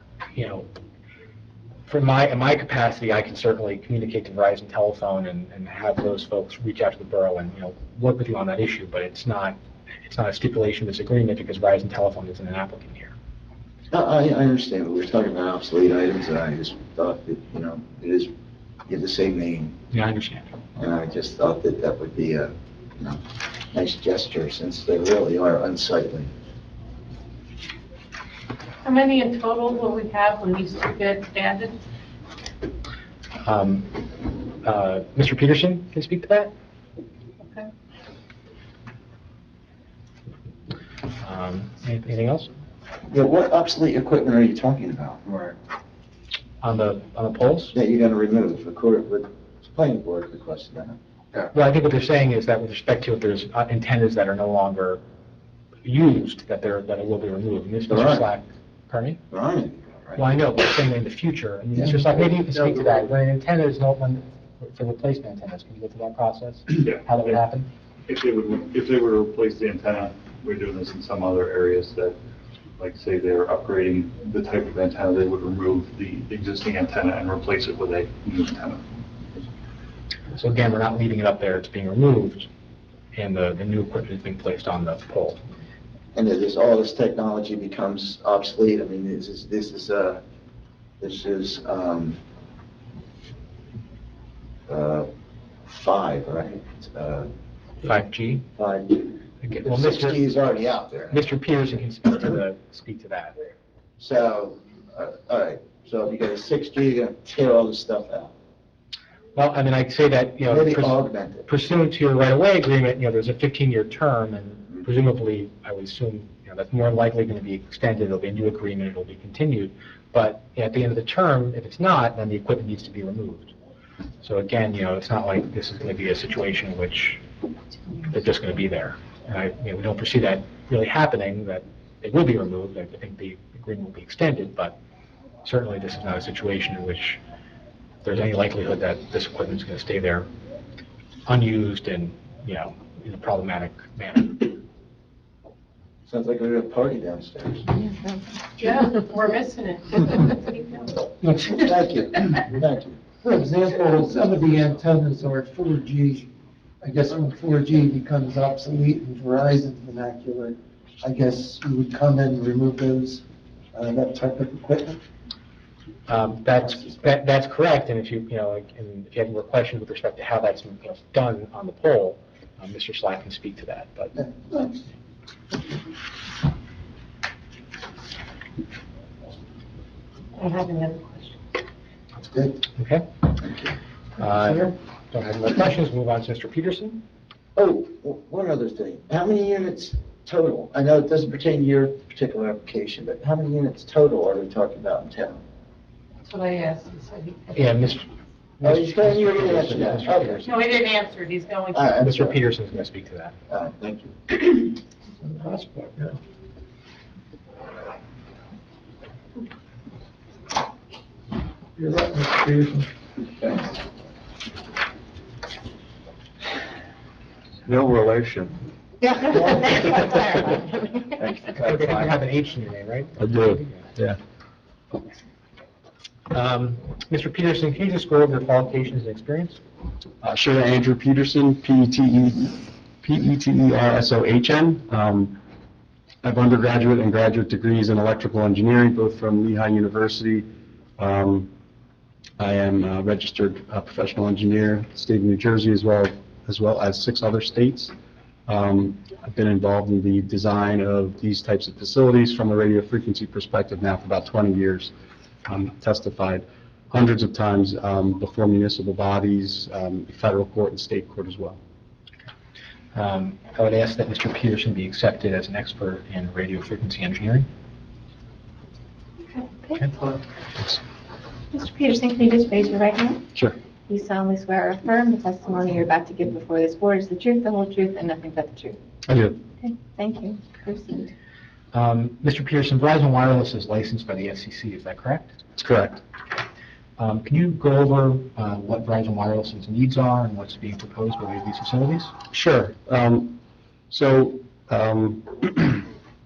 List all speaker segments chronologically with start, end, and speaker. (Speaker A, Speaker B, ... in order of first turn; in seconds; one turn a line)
Speaker A: 0.3-0.7
Speaker A: 1.9-13.1
Speaker B: 13.9-18.3
Speaker B: 18.9-19.7
Speaker A: 19.9-20.5
Speaker B: 20.8-23.2
Speaker B: 23.7-26.3
Speaker C: 28.8-31.8
Speaker A: 33.4-34.0
Speaker A: 34.6-36.5
Speaker C: 37.4-37.7
Speaker A: 41.2-42.5
Speaker B: 43.1-45.5
Speaker A: 46.6-47.7
Speaker B: 47.7-51.5
Speaker A: 51.5-55.0
Speaker A: 55.8-59.2
Speaker B: 57.9-58.2
Speaker B: 59.3-60.3
Speaker A: 60.2-67.7
Speaker D: 66.8-67.4
Speaker D: 68.1-72.2
Speaker D: 72.8-79.4
Speaker A: 80.3-82.5
Speaker A: 83.1-85.4
Speaker B: 86.1-90.2
Speaker B: 91.0-92.2
Speaker B: 94.7-95.1
Speaker B: 95.7-97.3
Speaker A: 97.8-98.4
Speaker B: 98.6-101.3
Speaker A: 99.4-100.2
Speaker A: 101.1-103.3
Speaker B: 104.0-108.3
Speaker A: 109.3-123.5
Speaker B: 110.5-111.5
Speaker A: 124.2-127.2
Speaker A: 128.0-134.8
Speaker A: 135.4-137.2
Speaker A: 138.0-140.3
Speaker A: 141.2-144.6
Speaker B: 146.1-147.7
Speaker E: 147.8-148.2
Speaker C: 148.7-151.0
Speaker D: 148.7-149.1
Speaker B: 151.4-153.0
Speaker F: 153.2-156.3
Speaker F: 156.8-163.2
Speaker F: 163.7-165.0
Speaker A: 166.1-174.2
Speaker C: 180.4-181.2
Speaker A: 182.8-183.1
Speaker B: 183.4-183.7
Speaker A: 184.2-187.0
Speaker B: 187.6-195.4
Speaker C: 196.2-197.7
Speaker A: 197.5-198.1
Speaker A: 198.6-200.6
Speaker B: 198.6-200.6
Speaker C: 200.5-201.9
Speaker B: 201.7-202.4
Speaker A: 202.0-203.3
Speaker B: 203.5-204.4
Speaker F: 205.2-206.1
Speaker F: 211.8-212.8
Speaker E: 219.0-221.0
Speaker B: 219.3-220.2
Speaker B: 221.1-222.2
Speaker A: 221.6-223.8
Speaker G: 223.2-224.2
Speaker A: 226.3-229.6
Speaker G: 230.2-235.4
Speaker G: 236.2-240.4
Speaker G: 241.0-241.5
Speaker G: 242.4-247.9
Speaker G: 248.5-254.9
Speaker G: 255.4-261.6
Speaker A: 262.9-267.5
Speaker E: 269.3-269.9
Speaker E: 271.5-273.2
Speaker E: 273.9-278.8
Speaker G: 279.1-279.4
Speaker E: 279.6-281.1
Speaker A: 281.7-285.4
Speaker G: 285.6-286.0
Speaker A: 287.0-292.2
Speaker G: 292.3-293.4
Speaker G: 293.9-295.9